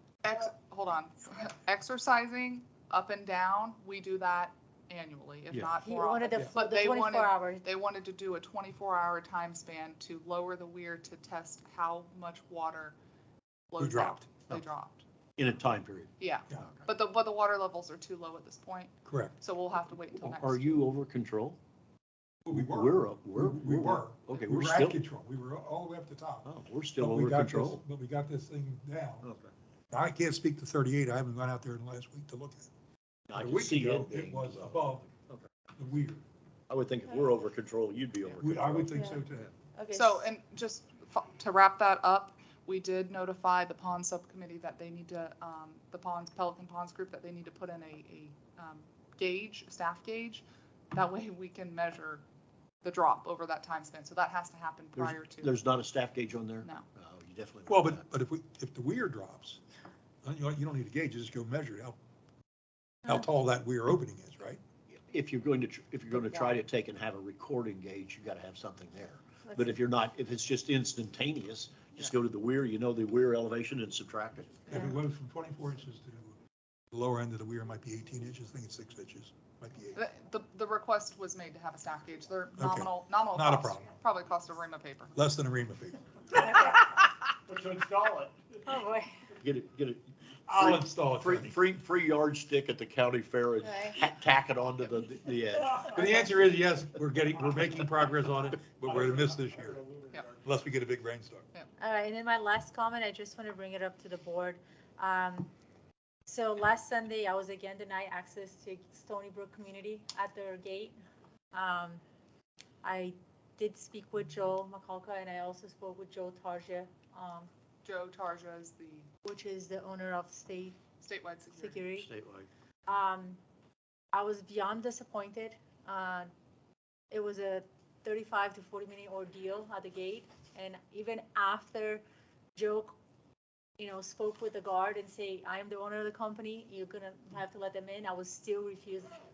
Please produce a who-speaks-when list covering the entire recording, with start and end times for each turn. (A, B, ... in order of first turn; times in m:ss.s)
0:00.2-0:13.0 A
0:05.8-0:07.7 B
0:13.7-0:15.0 A
0:13.8-0:14.2 C
0:15.4-0:16.9 D
0:16.2-0:20.8 A
0:19.0-0:19.4 C
0:20.2-0:21.6 D
0:22.4-0:29.3 C
0:22.5-0:25.0 D
0:26.4-0:27.8 D
0:29.2-0:29.5 D
0:29.9-0:32.7 C
0:33.3-0:35.5 D
0:33.3-0:35.1 C
0:35.8-0:36.2 C
0:36.7-0:38.9 D
0:38.4-0:39.6 C
0:38.9-0:40.3 B
0:39.9-0:52.2 A
0:52.8-0:55.6 A
0:55.0-0:58.0 D
0:57.7-0:59.6 C
1:00.2-1:02.0 C
1:03.0-1:04.6 C
1:04.9-1:14.9 D
1:09.5-1:09.7 B
1:14.7-1:16.4 C
1:16.9-1:20.0 C
1:19.9-1:25.1 A
1:22.6-1:23.8 C
1:25.2-1:26.0 C
1:26.4-1:26.9 B
1:27.5-1:28.3 D
1:28.6-1:29.3 B
1:29.4-1:36.0 D
1:30.5-1:31.6 C
1:33.6-1:34.0 B
1:35.8-1:39.8 C
1:40.4-1:41.5 C
1:41.8-1:45.5 B
1:46.2-1:51.0 B
1:51.5-1:52.0 B
1:52.8-1:57.5 B
1:57.8-1:59.1 A
1:59.2-2:00.8 B
2:01.0-2:01.8 A
2:01.5-2:02.1 B
2:01.9-2:02.5 D
2:02.9-2:03.4 B
2:04.1-2:06.3 B
2:07.1-2:12.0 B
2:12.5-2:12.9 B
2:13.8-2:19.1 B